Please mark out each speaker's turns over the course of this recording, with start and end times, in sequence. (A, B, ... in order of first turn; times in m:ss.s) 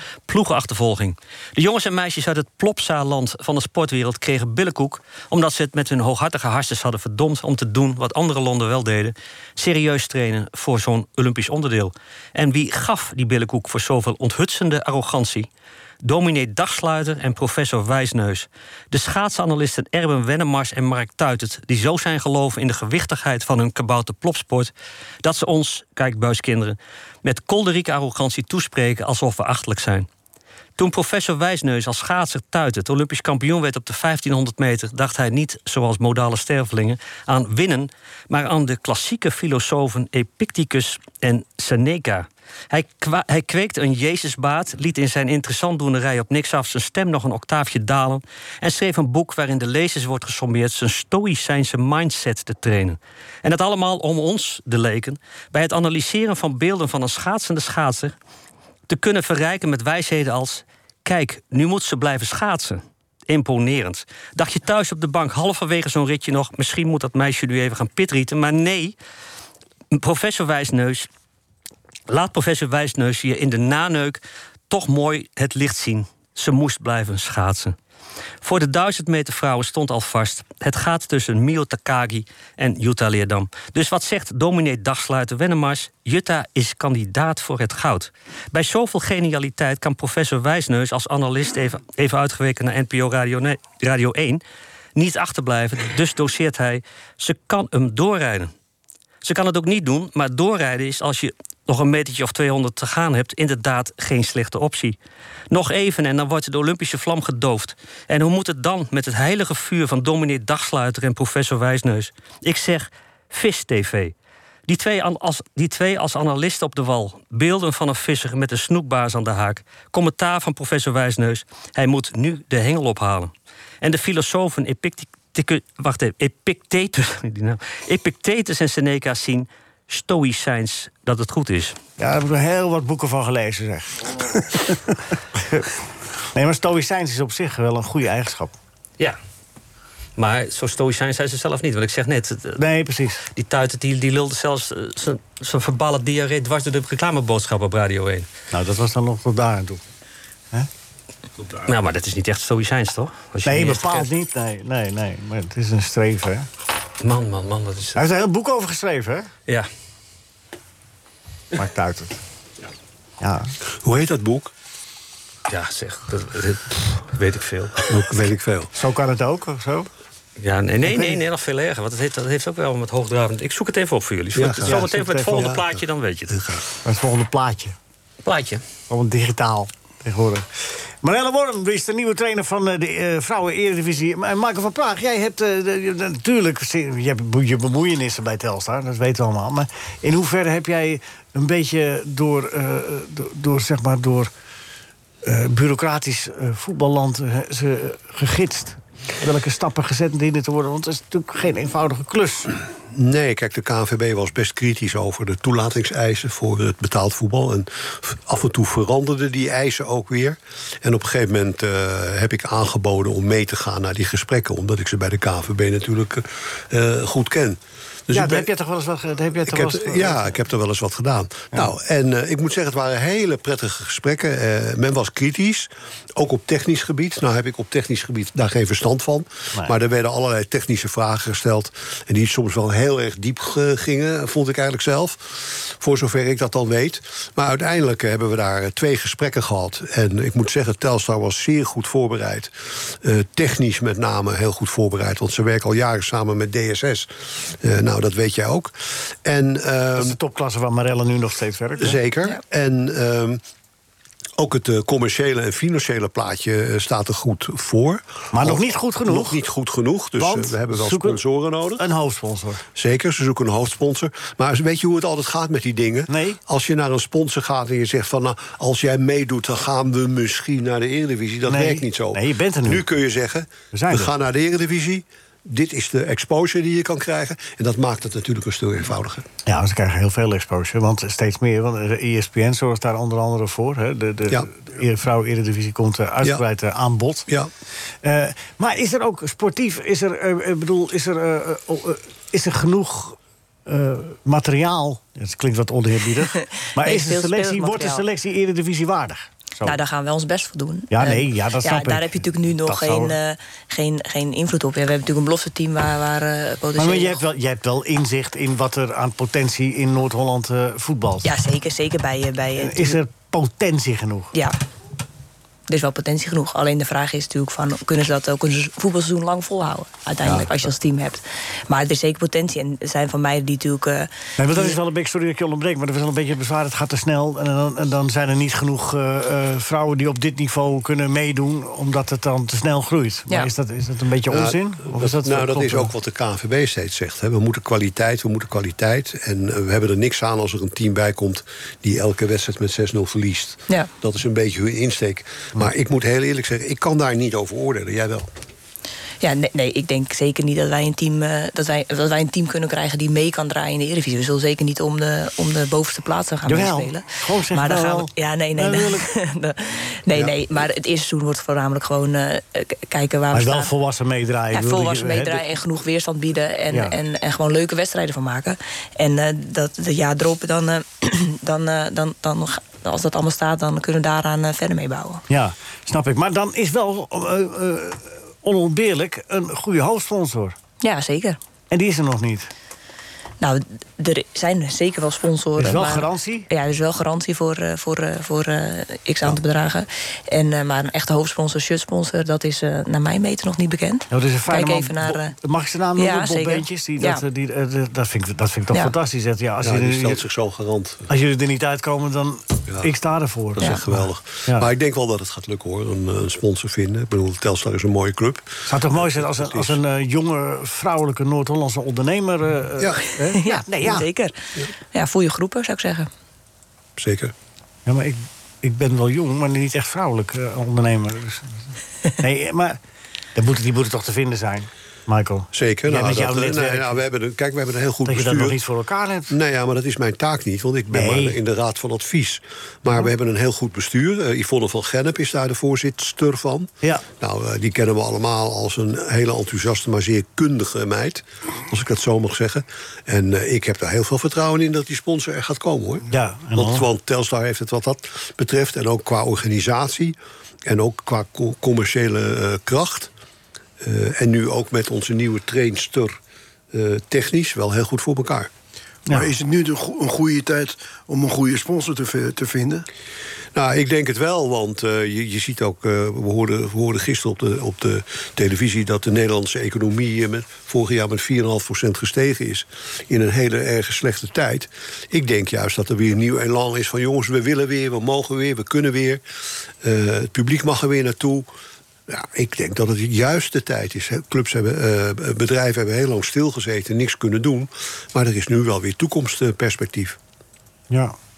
0:00.3-0:15.5 A
0:16.0-0:24.7 A
0:25.2-0:30.1 A
0:30.8-0:58.1 A
0:58.9-1:08.9 A
1:09.9-1:11.1 A
1:12.1-1:17.8 A
1:18.4-1:34.4 A
1:35.0-1:38.5 A
1:39.2-1:45.0 A
1:45.5-1:54.1 A
1:54.7-2:11.8 A
2:12.0-2:15.8 B
2:16.3-2:18.5 B
2:20.2-2:22.6 A
2:22.6-2:23.3 B
2:23.3-2:28.3 A
2:28.5-2:29.8 B
2:31.6-2:34.1 A
2:33.4-2:36.5 B
2:37.0-2:38.0 A
2:37.9-2:39.3 B
2:41.5-2:42.2 B
2:43.2-2:43.5 B
2:43.8-2:44.5 C
2:45.5-2:47.8 A
2:47.9-2:48.7 C
2:48.7-2:49.9 B
2:50.4-2:56.4 A
2:50.8-2:51.2 B
2:54.3-2:55.7 C
2:54.6-2:55.5 B
2:56.3-2:56.6 C
2:56.8-2:57.8 B
2:58.2-2:58.6 A
2:58.9-3:00.5 B
3:01.0-3:14.3 B
3:15.2-3:22.5 B
3:22.9-3:38.5 C
3:38.1-3:40.4 B
3:39.4-4:10.2 C
4:09.9-4:12.0 B
4:11.8-4:13.4 C
4:14.4-4:21.8 C
4:18.3-4:19.4 B
4:20.2-4:21.2 B
4:21.8-4:22.6 B
4:22.7-4:39.2 C
4:26.1-4:26.4 B
4:31.4-4:32.8 B
4:33.7-4:34.1 B
4:39.4-4:47.3 B
4:48.0-4:59.8 B
4:56.4-4:58.0 D
4:59.6-5:07.2 D
5:00.9-5:03.1 B
5:06.8-5:11.3 B
5:11.2-5:13.0 D
5:12.6-5:14.3 B
5:15.7-5:24.8 D
5:20.2-5:20.7 B
5:24.4-5:35.9 B
5:34.3-5:48.3 C
5:49.2-6:03.7 D
5:56.4-5:59.1 B
6:03.3-6:05.4 B
6:04.5-6:15.2 D
6:06.7-6:07.0 B
6:15.3-6:20.6 B
6:20.8-6:21.4 D
6:21.7-6:22.5 B
6:23.4-6:35.3 D
6:25.6-6:26.5 B
6:34.1-6:40.2 B
6:36.0-6:37.2 D
6:39.6-6:41.1 C
6:41.1-6:44.7 B
6:43.6-6:49.8 C
6:48.6-6:54.1 B
6:53.3-6:54.4 D
6:54.9-6:56.1 D
6:57.0-6:57.3 C
6:57.8-7:02.8 B
7:03.3-7:07.0 B
7:05.5-7:08.6 C
7:08.0-7:09.3 B
7:09.3-7:30.1 C
7:10.9-7:11.4 B
7:26.1-7:26.9 B
7:30.6-7:33.1 C
7:33.8-7:36.2 C
7:36.7-7:38.5 C
7:39.1-7:42.8 E
7:43.5-7:59.2 C
7:59.8-8:01.5 C
8:02.1-8:10.2 C
8:10.9-8:11.2 B